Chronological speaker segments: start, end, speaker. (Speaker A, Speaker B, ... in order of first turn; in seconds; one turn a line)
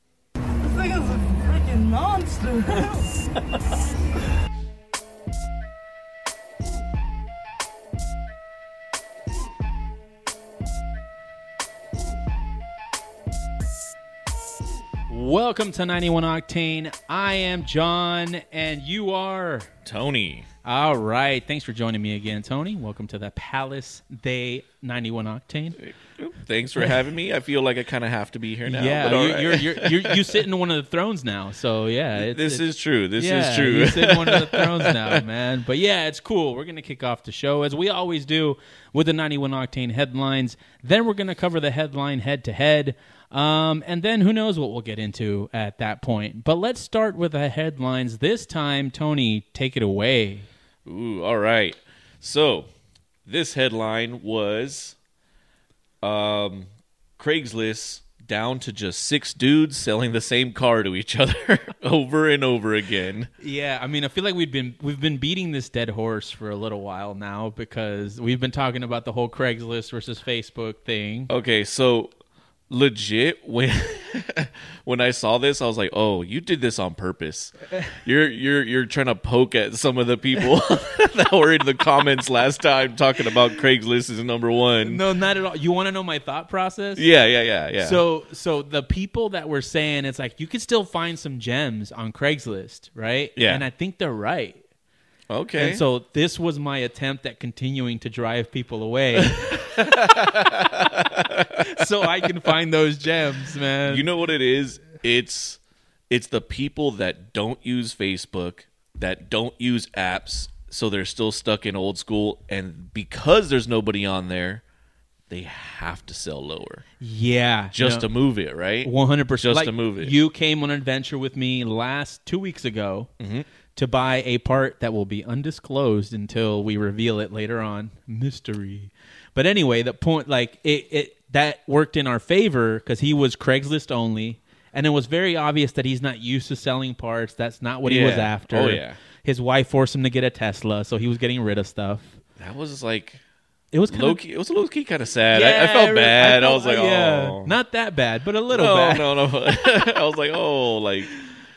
Speaker A: 0.6-3.2
Speaker B: 15.1-19.7
Speaker C: 19.9-20.5
Speaker B: 20.6-25.8
Speaker C: 25.8-30.4
Speaker B: 28.6-32.6
Speaker C: 32.1-35.2
Speaker B: 33.2-50.5
Speaker C: 50.9-52.7
Speaker C: 53.2-55.0
Speaker C: 56.0-63.3
Speaker B: 63.4-71.3
Speaker C: 71.3-72.1
Speaker C: 72.7-85.0
Speaker B: 84.8-87.0
Speaker C: 87.0-88.0
Speaker B: 87.8-94.6
Speaker C: 93.4-93.6
Speaker C: 95.3-95.8
Speaker B: 95.6-104.1
Speaker C: 99.3-102.3
Speaker C: 103.9-114.6
Speaker C: 115.3-116.8
Speaker B: 117.0-118.1
Speaker C: 117.7-120.2
Speaker B: 118.8-123.1
Speaker C: 123.2-123.5
Speaker B: 123.8-142.2
Speaker C: 137.8-139.0
Speaker C: 142.4-143.2
Speaker B: 143.7-144.2
Speaker C: 143.9-147.6
Speaker B: 145.3-149.1
Speaker C: 148.5-151.1